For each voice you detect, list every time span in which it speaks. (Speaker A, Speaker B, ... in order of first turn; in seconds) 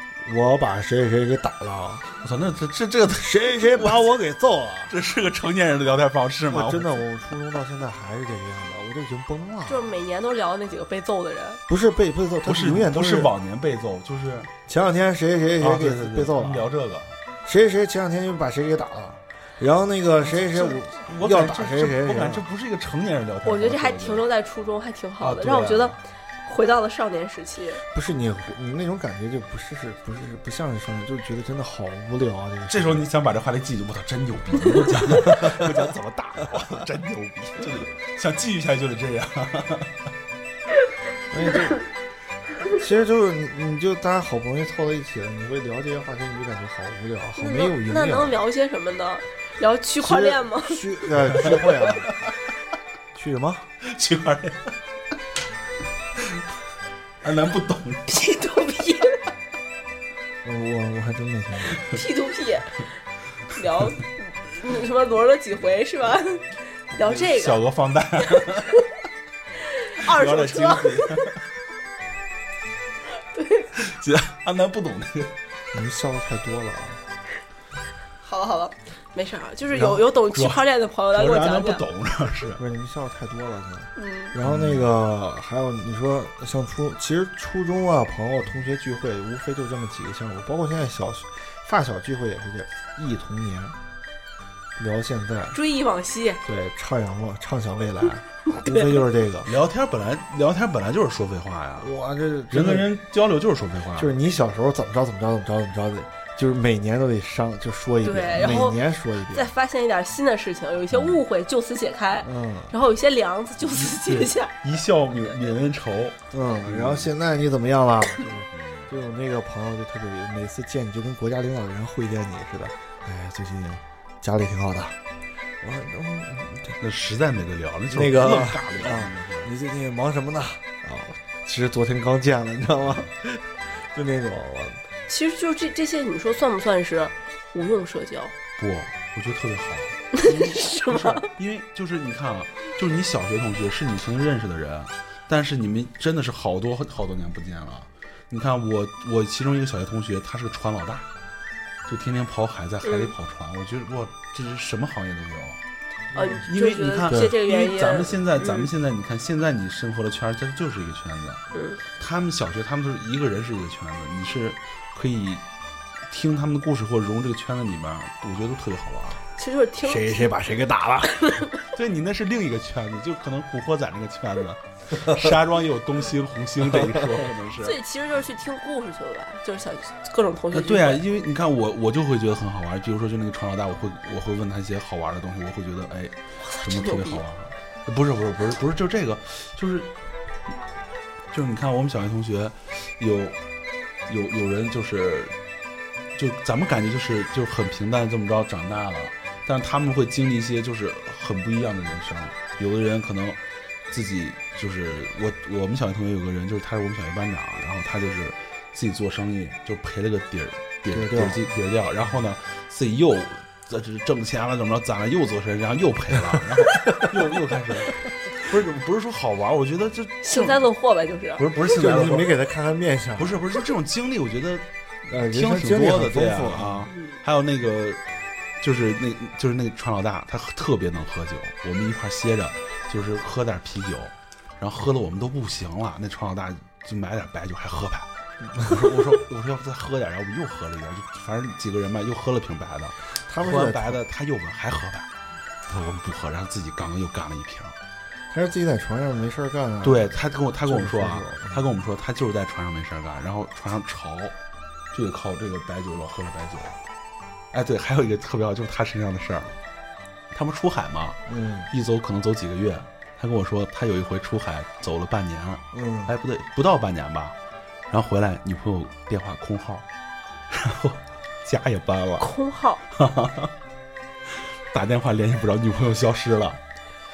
Speaker A: 0.2-2.1, 3.2-5.0, 6.5-9.9, 11.7-13.3, 14.7-16.7, 17.4-22.4, 27.9-33.0, 35.3-35.7, 41.3-41.9, 42.7-48.4, 50.0-52.1, 53.1-53.7, 60.4-61.8, 75.7-77.0, 82.6-93.8, 94.8-95.6, 96.5-99.5, 101.8-102.9, 104.0-109.5, 112.2-112.7, 116.3-125.0, 125.6-126.8, 127.9-134.8, 156.1-156.4, 157.1-157.3, 169.8-171.5, 210.9-211.4, 221.6-223.4, 225.1-226.9, 238.4-238.9, 243.3-244.0, 248.3-251.7, 261.3-261.7, 265.7-266.1
Speaker B: 2.2-4.1, 4.9-7.0, 12.4-14.5, 15.6-17.2, 20.3-24.2, 25.2-26.0, 32.7-40.0, 51.4-52.1, 53.8-54.7, 57.2-58.1, 67.0-68.8, 70.1-71.4, 73.8-75.3, 79.8-82.6, 84.4-84.9, 99.5-101.9, 102.5-104.1, 110.9-111.2, 113.6-117.1, 118.5-118.9, 126.8-129.5, 138.6-151.1, 151.9-155.6, 156.5-161.4, 162.0-165.4, 166.1-169.2, 171.7-177.8, 180.5-189.9, 191.3-193.4, 194.1-195.3, 196.2-220.6, 221.4-222.4, 223.2-228.0, 228.6-245.1, 245.7-247.8, 249.8-254.4, 254.9-256.8, 257.5-259.6, 260.3-261.2, 261.7-267.4, 267.9-269.9, 270.5-272.3, 272.9-273.5, 274.3-276.6
Speaker C: 9.7-11.6, 23.4-27.8, 47.4-50.8, 58.1-59.2, 61.9-62.9, 63.5-67.6, 69.7-71.2, 73.3-73.7, 78.2-81.8, 84.0-84.3, 95.5-96.4, 108.0-114.5, 135.1-138.3, 140.2-141.3, 152.8-153.1, 156.2-158.7, 161.5-161.8, 169.4-170.3, 171.2-171.5, 177.6-181.0, 186.4-187.2, 220.2-221.4, 226.9-227.2, 272.2-272.8